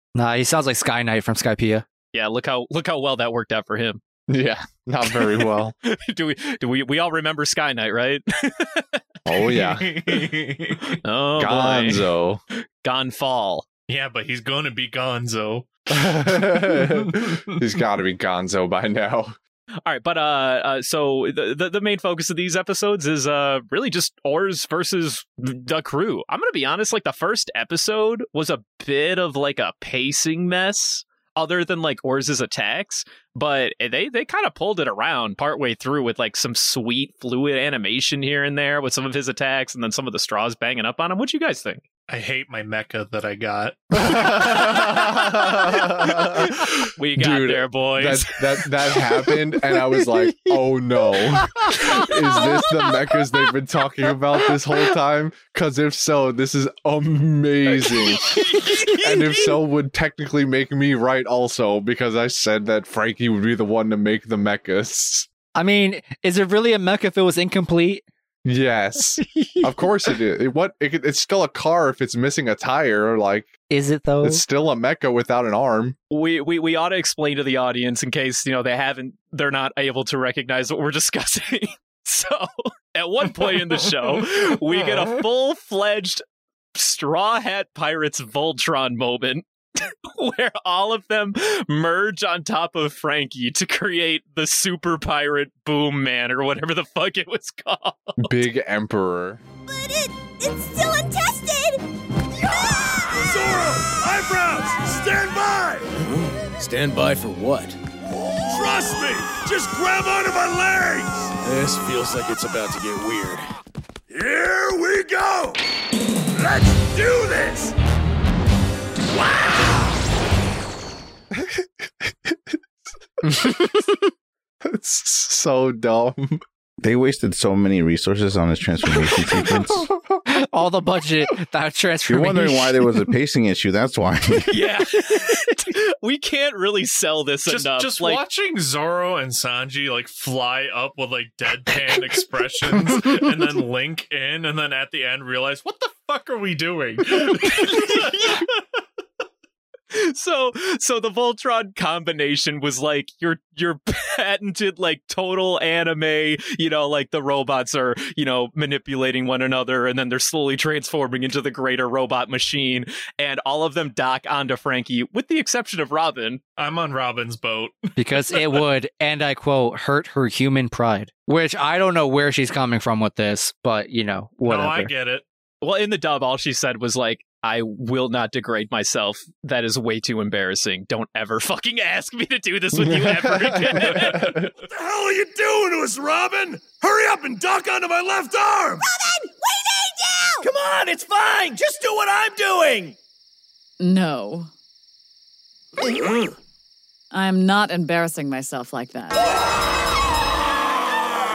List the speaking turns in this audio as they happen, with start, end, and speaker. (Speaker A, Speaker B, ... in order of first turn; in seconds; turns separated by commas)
Speaker A: 0.1-1.8, Speaker B: 2.1-4.0, Speaker C: 4.3-5.7, Speaker B: 5.0-9.0, Speaker C: 9.2-10.0, Speaker D: 9.6-11.0, Speaker B: 10.8-12.1, Speaker C: 11.4-12.4, Speaker B: 12.8-13.7, Speaker D: 13.9-15.7, Speaker C: 15.9-19.3, Speaker D: 16.6-17.0, Speaker B: 19.8-41.8, Speaker D: 42.1-44.5, Speaker C: 44.0-46.6, Speaker B: 47.0-49.3, Speaker C: 47.2-65.3, Speaker A: 65.5-68.0, Speaker C: 68.4-73.5, Speaker A: 73.7-74.4, Speaker C: 74.2-76.0, Speaker B: 76.1-86.2, Speaker B: 86.7-98.3, Speaker C: 98.2-99.4, Speaker E: 99.7-101.8, Speaker F: 102.6-106.1, Speaker F: 106.6-107.5, Speaker G: 107.4-107.7, Speaker F: 108.4-112.0, Speaker G: 111.6-113.3, Speaker F: 114.1-115.6, Speaker F: 116.4-117.7, Speaker F: 119.1-119.9, Speaker C: 121.3-122.6, Speaker C: 123.3-123.9, Speaker C: 124.6-126.4, Speaker H: 126.8-129.9, Speaker A: 130.3-132.9, Speaker H: 132.1-134.5, Speaker B: 134.5-138.2, Speaker D: 137.4-148.6, Speaker B: 147.4-148.4, Speaker B: 149.9-166.4, Speaker D: 166.6-168.6, Speaker A: 168.0-174.9, Speaker D: 174.4-175.2, Speaker B: 175.6-184.3, Speaker C: 182.9-184.5, Speaker F: 184.6-188.8, Speaker E: 188.8-190.5, Speaker F: 190.4-192.9, Speaker I: 193.8-194.5, Speaker F: 195.8-196.3, Speaker I: 197.1-199.3